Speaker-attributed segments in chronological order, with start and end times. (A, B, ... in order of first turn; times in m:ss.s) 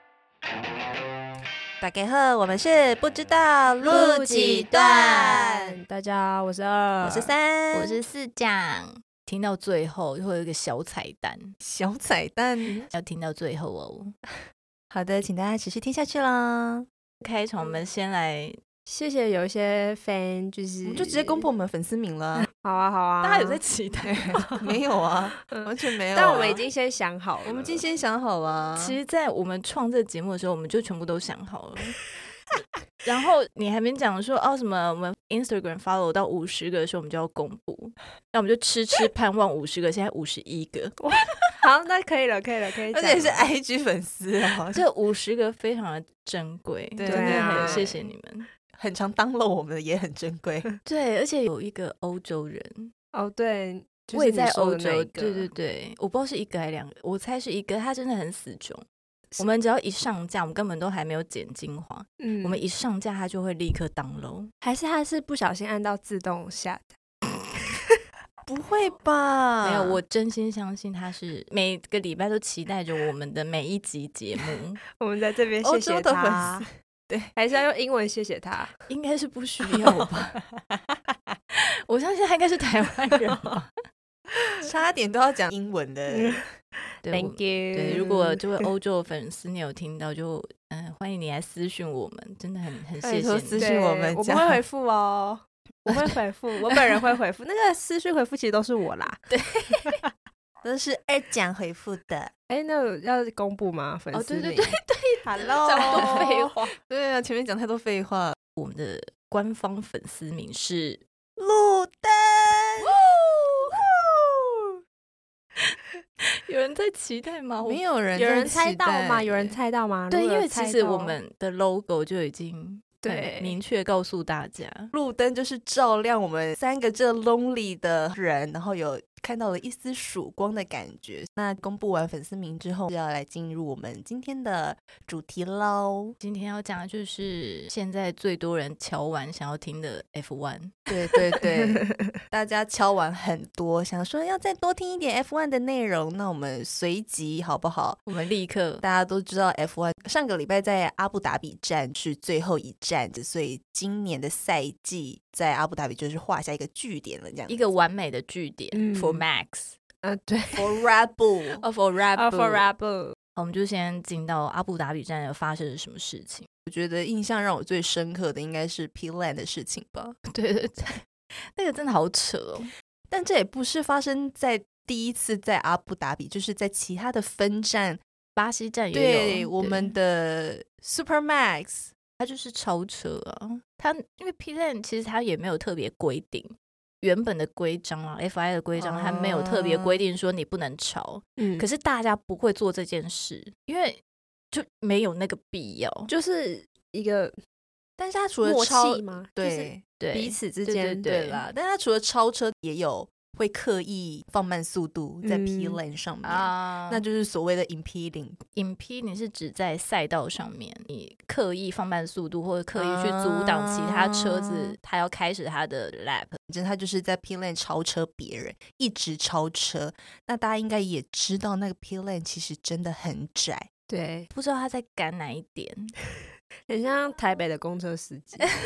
0:01.8-0:05.7 A
0:03.8-0:07.3 B
0:04.2-0:05.4 C
0:07.0-0:08.0 A
0:07.7-0:11.5 C
0:11.6-0:12.8 A
0:12.9-0:14.1 C
0:14.9-0:16.9 A
0:17.2-0:18.6 C
0:18.8-0:21.5 B
0:20.8-0:22.5 A
0:22.4-0:23.6 B
0:23.2-0:24.6 C
0:24.0-0:26.6 A
0:25.4-0:27.8 B
0:26.3-0:26.6 C
0:27.4-0:29.0 A
0:28.8-0:32.0 C
0:33.0-0:41.0 C
0:41.0-0:43.5 B
0:42.9-0:44.8 A
0:44.7-0:48.5 C
0:47.0-0:48.0 A
0:47.0-0:48.0 B
0:48.7-0:50.7 A
0:50.8-0:52.9 C
0:53.1-0:55.5 B
0:54.1-0:58.8 C
0:59.4-1:04.5 C
1:02.2-1:02.6 B
1:04.6-1:07.0 B
1:08.4-1:10.0 A
1:09.6-1:14.8 C
1:15.0-1:16.6 B
1:15.6-1:17.3 A
1:17.3-1:18.8 B
1:18.9-1:20.4 C
1:19.7-1:20.1 A
1:21.9-1:23.7 C
1:24.6-1:26.5 A
1:26.1-1:26.4 B
1:27.0-1:33.7 C
1:27.1-1:28.6 B
1:33.0-1:34.6 A
1:33.5-1:39.9 B
1:39.3-1:40.0 C
1:40.6-1:42.3 A
1:42.5-1:44.8 B
1:44.1-1:46.7 C
1:45.3-1:48.4 A
1:45.7-1:46.2 B
1:48.6-1:51.0 C
1:51.4-1:52.9 A
1:52.8-1:53.8 C
1:54.2-1:54.5 A
1:56.4-1:57.8 C
1:57.6-1:59.6 A
1:58.1-2:01.2 B
2:00.1-2:04.9 C
2:03.0-2:03.6 B
2:04.9-2:16.2 A
2:16.2-2:20.8 C
2:20.9-2:28.0 A
2:21.4-2:22.0 B
2:28.1-2:28.8 C
2:28.8-2:37.6 A
2:37.5-2:39.8 C
2:38.7-2:39.2 B
2:40.0-2:40.8 B
2:40.5-2:41.6 A
2:41.6-2:42.7 C
2:42.0-2:43.2 B
2:43.4-2:46.5 C
2:46.6-2:50.2 A
2:50.3-2:51.0 C
2:51.6-2:52.7 C
2:53.1-2:58.0 A
2:58.4-2:59.9 C
2:58.9-3:01.9 A
3:02.2-3:14.0 C
3:08.8-3:10.0 A
3:11.4-3:11.7 B
3:14.5-3:16.1 C
3:16.1-3:17.4 B
3:18.0-3:19.8 A
3:18.4-3:21.3 B
3:20.0-3:21.4 C
3:21.2-3:28.4 A
3:25.2-3:25.8 B
3:26.2-3:27.0 C
3:28.5-3:36.4 C
3:32.7-3:34.8 A
3:36.5-3:43.7 A
3:43.9-3:44.3 B
3:44.3-3:45.9 C
3:46.7-3:48.5 B